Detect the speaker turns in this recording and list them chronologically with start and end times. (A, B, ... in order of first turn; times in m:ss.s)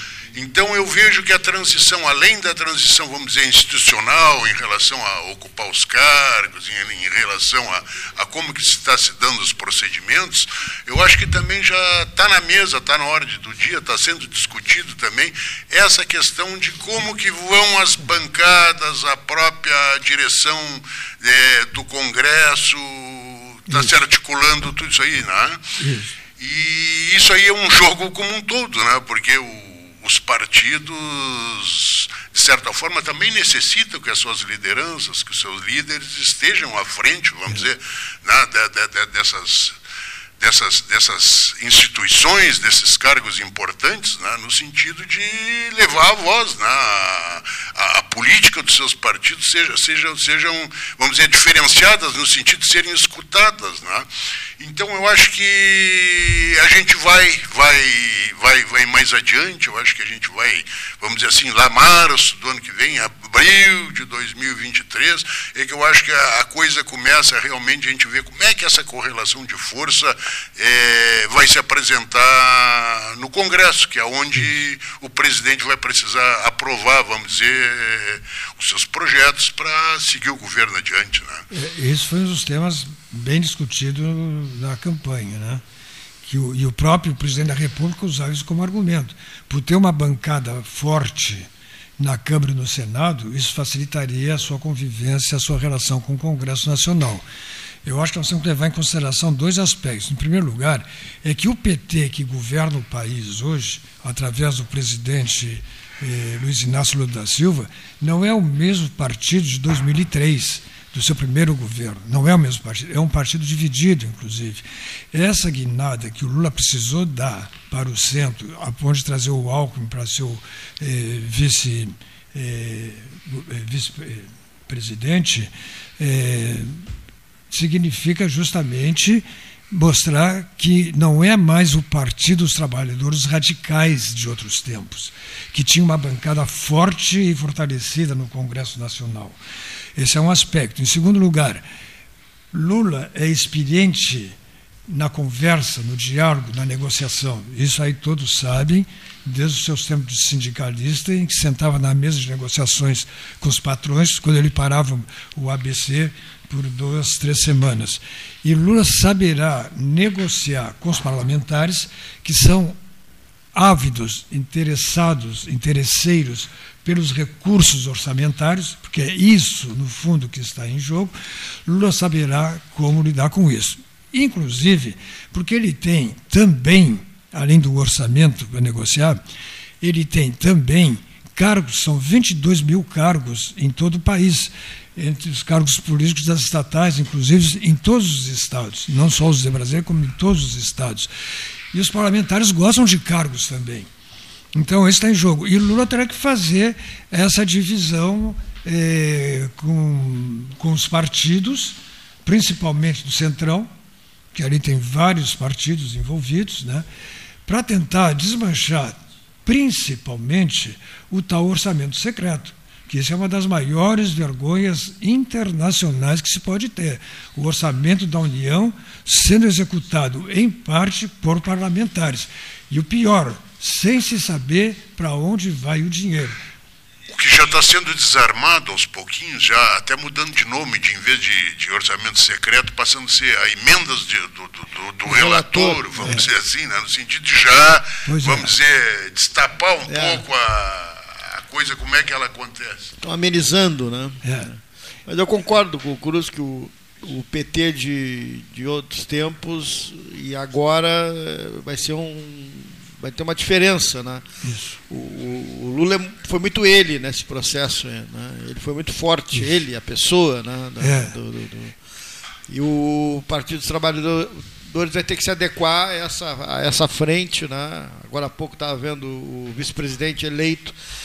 0:00.3-0:25.7 A
0:25.8-0:26.1 B
0:26.4-0:39.7 A
0:40.4-0:54.1 A
0:54.6-1:21.4 A
1:21.5-1:25.6 B
1:26.2-1:37.2 B
1:37.8-2:06.8 B
2:07.5-2:19.4 B
2:19.9-2:21.6 B
2:22.5-2:24.4 B
2:24.9-2:42.8 B
2:43.5-2:51.1 B
2:51.6-2:59.2 B
2:59.8-3:11.1 B
3:11.7-3:13.9 B
3:14.5-3:23.7 B
3:24.3-3:26.8 B
3:27.4-3:46.4 B
3:47.1-4:02.9 A
3:55.0-3:56.2 C
3:56.0-3:56.2 B
3:58.1-3:58.5 B
3:59.9-4:00.2 C
4:03.0-4:04.3 C
4:04.2-4:04.5 B
4:05.0-4:14.3 C
4:14.4-4:14.8 B
4:14.9-4:21.7 C
4:20.8-4:21.2 B
4:22.5-4:30.7 C